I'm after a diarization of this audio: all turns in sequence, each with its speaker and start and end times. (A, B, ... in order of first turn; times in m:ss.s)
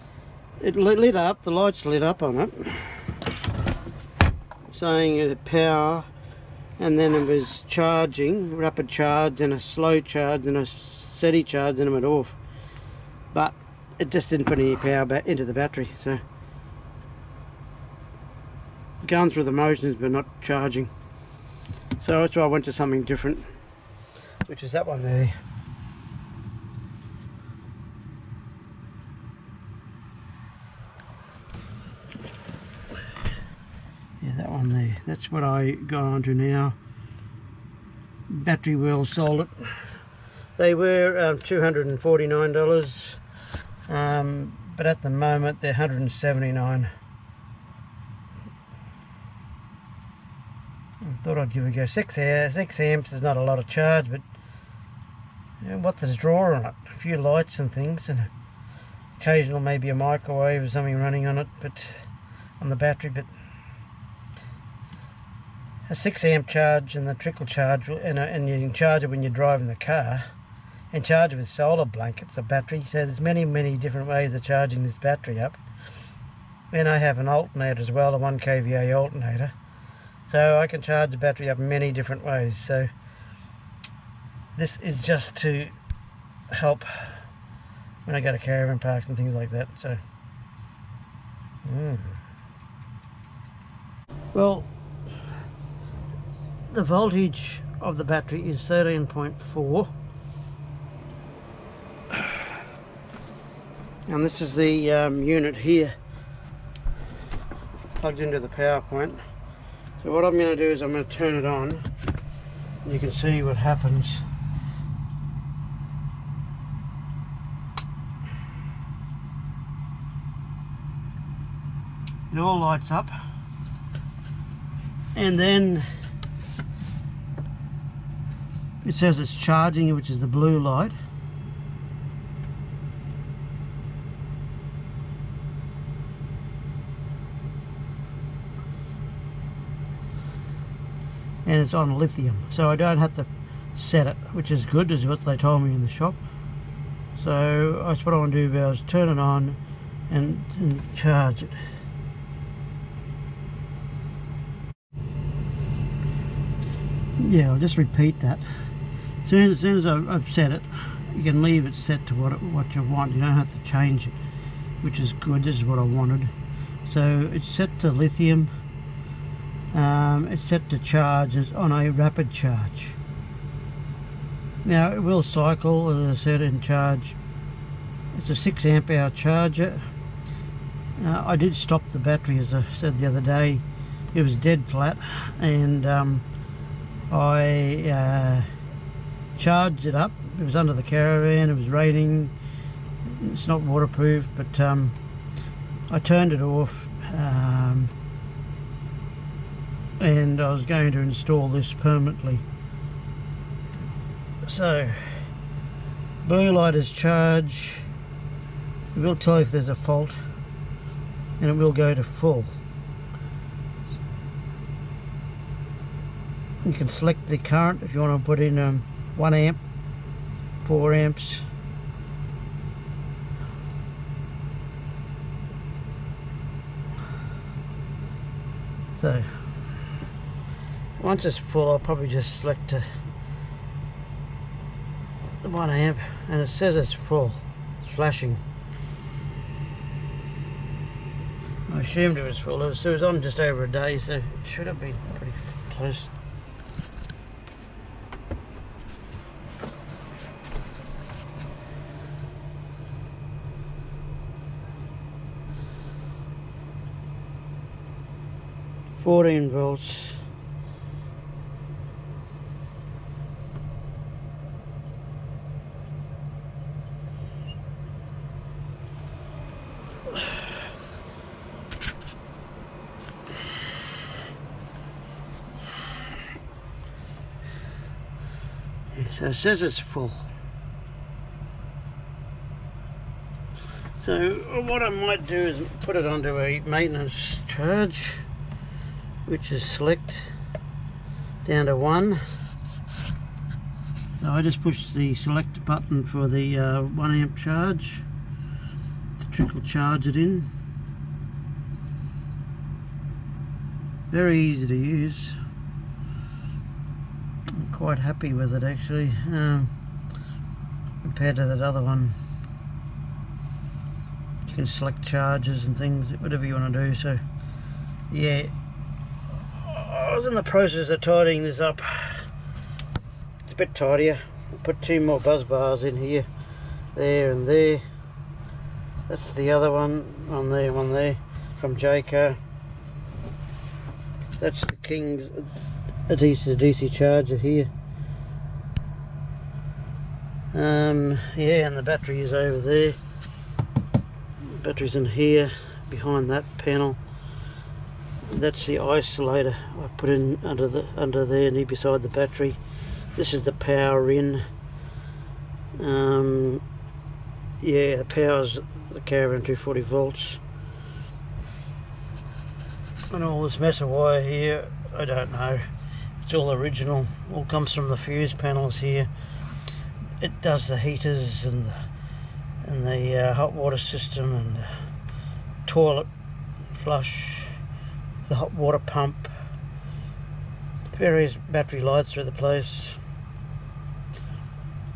0:00.6-0:03.0 A
0:04.7-0:06.1 A
0:06.8-0:12.4 A
0:13.3-0:16.2 A
0:19.0-0:20.9 A
0:22.0-0:23.5 A
0:24.5-0:25.3 A
0:34.2-0:36.8 A
0:38.3-0:39.8 A
0:40.6-0:43.2 A
0:43.9-0:46.9 A
0:51.0-0:54.2 A
0:55.6-0:58.3 A
0:59.2-1:02.0 A
1:02.6-1:03.3 A
1:05.9-1:10.2 A
1:10.9-1:15.6 A
1:16.7-1:19.5 A
1:20.3-1:22.9 A
1:24.6-1:25.7 A
1:26.5-1:27.2 A
1:28.0-1:30.0 A
1:31.6-1:32.2 A
1:34.3-1:34.7 A
1:36.7-1:39.9 A
1:44.1-1:45.9 A
1:48.0-1:49.2 A
1:50.0-1:51.8 A
1:52.8-1:54.2 A
2:02.3-2:03.1 A
2:05.1-2:05.9 A
2:08.8-2:10.9 A
2:21.4-2:26.2 A
2:27.2-2:29.6 A
2:30.1-2:31.6 A
2:37.2-2:38.4 A
2:39.2-2:44.2 A
2:44.8-2:46.3 A
2:46.8-2:48.5 A
2:49.7-2:53.0 A
2:54.6-2:57.2 A
2:58.1-2:59.9 A
3:01.0-3:06.2 A
3:07.1-3:08.5 A
3:09.4-3:12.3 A
3:13.0-3:15.0 A
3:15.9-3:17.9 A
3:20.0-3:22.4 A
3:24.4-3:25.0 A
3:26.2-3:27.8 A
3:28.9-3:30.2 A
3:31.4-3:32.5 A
3:36.6-3:39.6 A
3:40.6-3:41.4 A
3:48.9-3:49.4 A
3:51.0-3:52.8 A
3:55.4-3:58.4 A
4:01.7-4:06.1 A
4:19.0-4:20.2 A
4:39.0-4:40.3 A
4:44.0-4:48.2 A
4:49.2-4:50.3 A
4:51.4-4:52.2 A
4:54.2-4:58.0 A
4:59.2-5:00.5 A
5:04.1-5:05.4 A
5:07.5-5:09.7 A
5:11.0-5:12.2 A
5:14.4-5:17.2 A
5:18.1-5:18.5 A
5:19.6-5:22.3 A
5:23.4-5:26.3 A
5:26.9-5:27.8 A
5:29.1-5:32.4 A
5:34.4-5:35.5 A
5:36.1-5:37.7 A
5:40.5-5:43.0 A
5:44.5-5:47.0 A
5:48.2-5:52.6 A
5:53.1-5:54.4 A
5:55.8-5:56.6 A
5:57.6-6:00.4 A
6:03.1-6:05.6 A
6:06.2-6:09.1 A
6:10.2-6:11.8 A
6:12.6-6:14.7 A
6:15.6-6:16.1 A
6:16.7-6:17.5 A
6:18.2-6:19.3 A
6:20.9-6:23.0 A